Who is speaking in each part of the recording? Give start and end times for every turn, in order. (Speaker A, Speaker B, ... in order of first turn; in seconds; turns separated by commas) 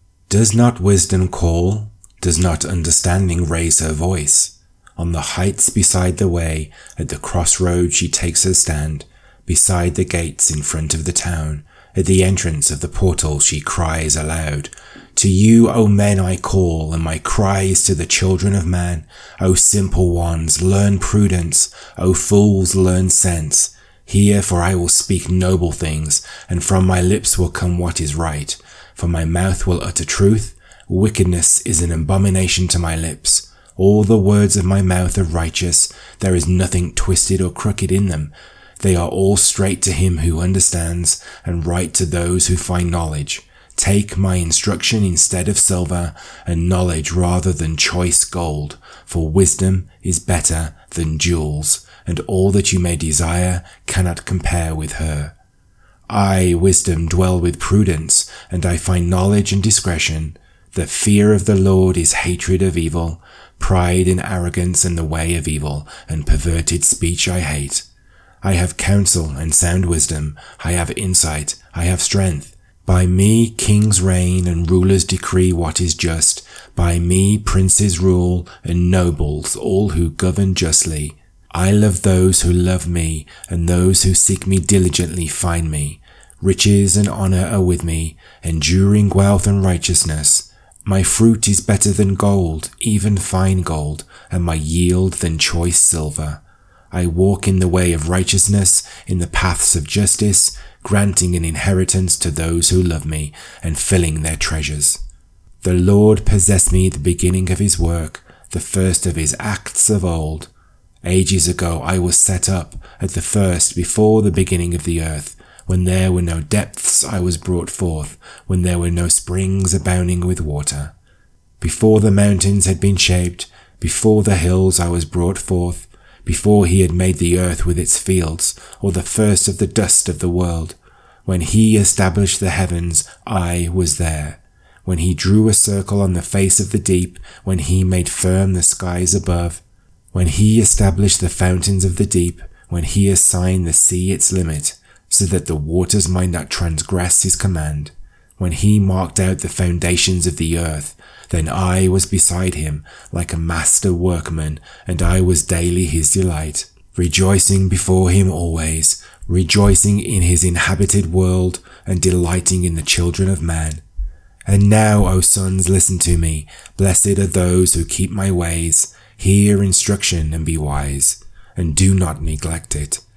Speaker A: 0.3-55.4, Speaker A: 56.1-67.8, Speaker A: 68.4-96.4, Speaker A: 96.9-105.0, Speaker A: 105.6-110.5, Speaker A: 111.0-120.9, Speaker A: 121.6-163.8, Speaker A: 164.5-173.0